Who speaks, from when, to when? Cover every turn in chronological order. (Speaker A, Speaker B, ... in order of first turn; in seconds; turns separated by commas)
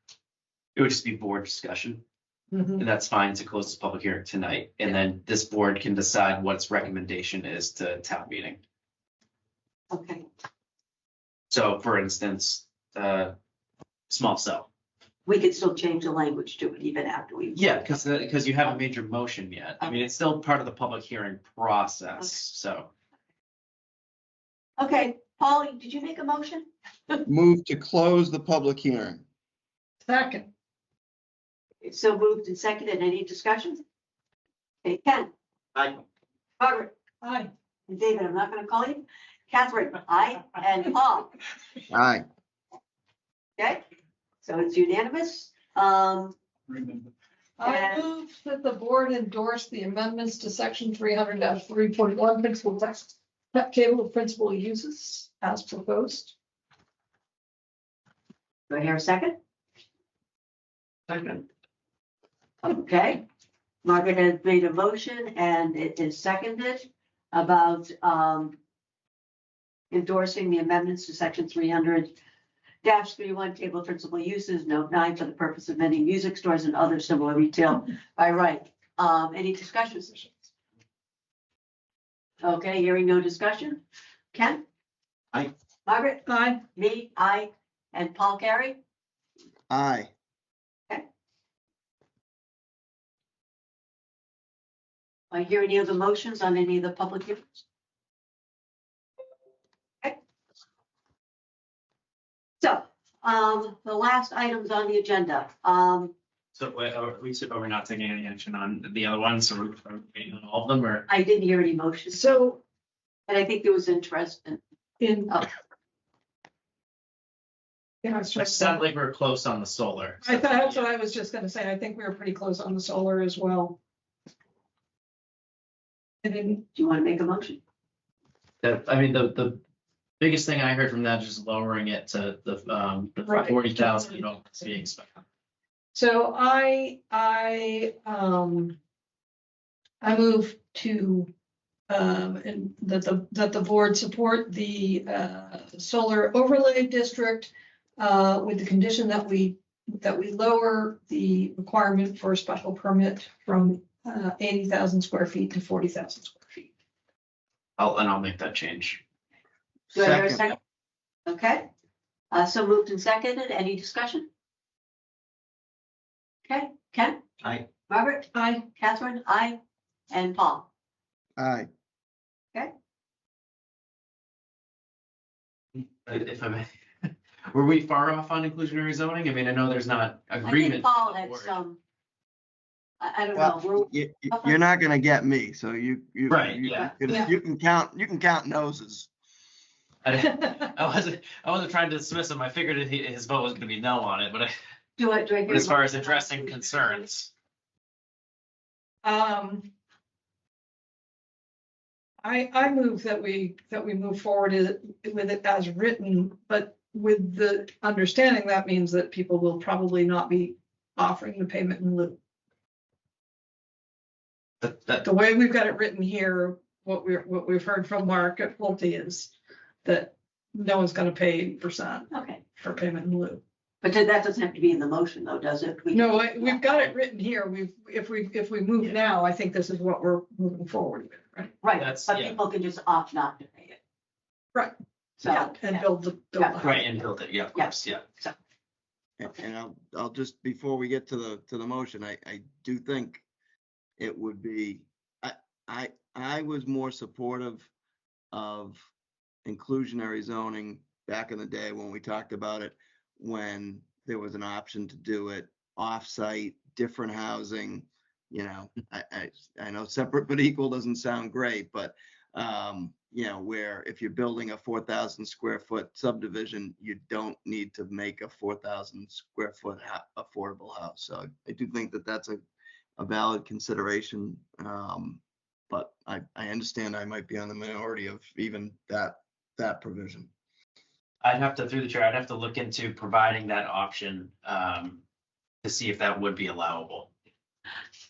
Speaker A: 0.8-2.0, Speaker B: 2.5-2.9, Speaker A: 2.8-8.6, Speaker C: 9.9-10.2, Speaker A: 11.5-13.3, Speaker A: 14.1-14.7, Speaker C: 15.2-17.9, Speaker A: 17.5-22.9, Speaker C: 24.8-27.2, Speaker D: 27.2-29.2, Speaker B: 30.0-30.5, Speaker C: 31.8-33.8, Speaker C: 34.8-35.3, Speaker C: 36.6-36.9, Speaker B: 37.2-37.5, Speaker C: 37.9-41.3, Speaker D: 41.9-42.2, Speaker C: 44.4-46.4, Speaker B: 47.6-56.3, Speaker C: 47.6-48.1, Speaker C: 58.7-59.4, Speaker C: 62.6-63.2, Speaker C: 63.8-68.6, Speaker C: 69.9-72.1, Speaker C: 72.8-80.3, Speaker C: 82.4-83.8, Speaker C: 84.3-84.6, Speaker C: 85.9-88.8, Speaker B: 86.3-86.6, Speaker D: 89.7-90.1, Speaker C: 95.3-97.6, Speaker C: 102.6-106.1, Speaker A: 106.5-111.1, Speaker C: 111.1-112.3, Speaker B: 112.1-112.6, Speaker C: 113.3-114.6, Speaker B: 115.0-115.4, Speaker B: 118.0-118.8, Speaker A: 118.4-120.8, Speaker B: 120.2-123.8, Speaker B: 126.2-126.7, Speaker C: 126.7-127.6, Speaker A: 128.6-129.6, Speaker A: 130.2-135.2, Speaker B: 133.2-134.2, Speaker B: 135.9-138.8, Speaker B: 140.0-141.3, Speaker B: 141.9-156.7, Speaker A: 157.8-159.0, Speaker D: 159.9-160.5, Speaker C: 159.9-160.6, Speaker C: 161.2-161.7, Speaker C: 162.3-164.3, Speaker C: 166.5-169.6, Speaker B: 168.3-168.7, Speaker C: 170.1-170.7, Speaker D: 171.4-171.7, Speaker A: 176.0-181.5, Speaker C: 180.4-181.8, Speaker C: 183.0-184.6, Speaker D: 183.3-189.1, Speaker A: 186.3-186.9, Speaker A: 190.0-194.5, Speaker C: 195.0-197.0, Speaker A: 195.5-197.3, Speaker B: 199.0-199.7, Speaker B: 202.2-212.2, Speaker A: 214.6-215.0, Speaker B: 215.0-219.3, Speaker B: 219.8-223.4, Speaker C: 222.1-222.4, Speaker C: 223.8-226.9, Speaker B: 225.9-231.6, Speaker C: 231.6-233.8, Speaker A: 231.8-232.4, Speaker C: 235.2-235.8, Speaker B: 235.2-236.9, Speaker A: 236.6-238.0, Speaker C: 237.6-238.3, Speaker D: 239.2-243.2, Speaker D: 244.0-247.7, Speaker D: 248.3-248.9, Speaker D: 249.4-272.4, Speaker D: 273.0-280.3, Speaker A: 281.2-285.0, Speaker A: 285.6-287.1